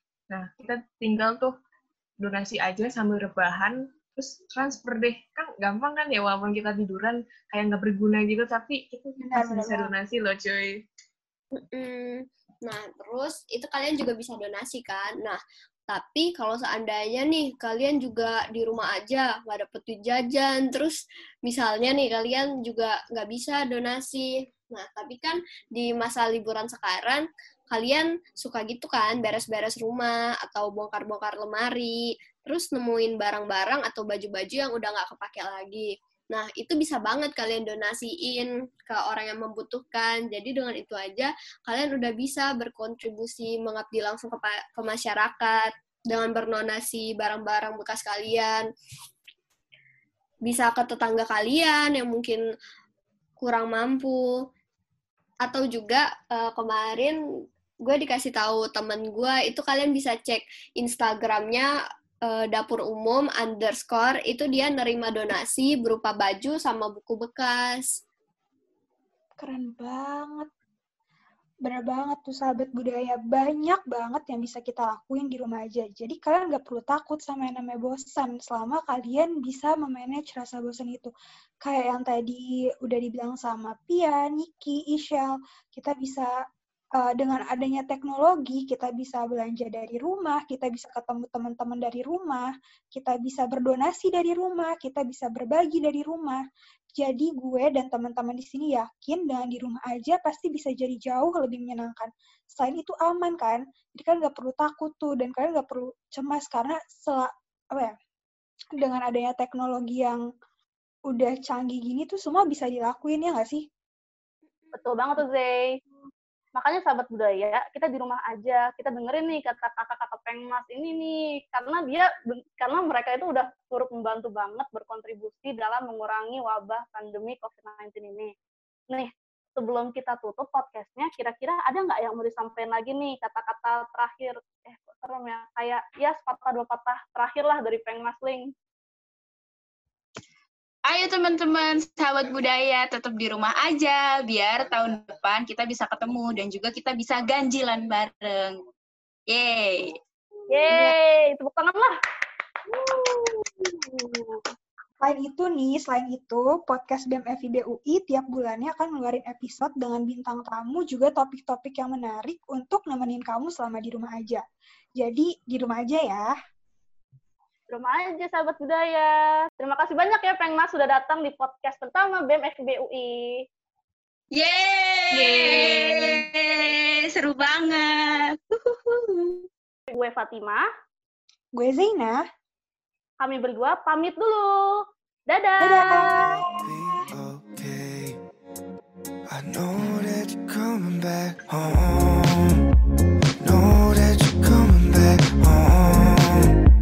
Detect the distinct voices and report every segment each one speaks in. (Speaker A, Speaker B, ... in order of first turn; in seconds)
Speaker A: 0.3-1.5, 2.2-10.8
Speaker B: 9.2-9.9, 69.4-70.5, 71.7-81.1, 81.6-86.3, 87.0-96.4, 97.0-108.0, 108.7-110.2, 111.1-113.7, 155.0-164.4, 165.0-166.3, 181.6-182.2, 185.6-186.8
Speaker C: 11.6-48.7, 50.5-52.4, 53.4-54.2, 55.5-57.2, 57.9-61.7, 62.3-67.8
Speaker D: 114.7-115.8, 116.5-128.3, 128.9-138.5, 150.5-152.0, 167.7-173.4, 179.9-180.7, 183.2-186.4
Speaker E: 140.9-148.6, 149.3-150.0, 174.3-179.4
Speaker F: 186.6-188.2, 189.3-192.6, 193.4-196.6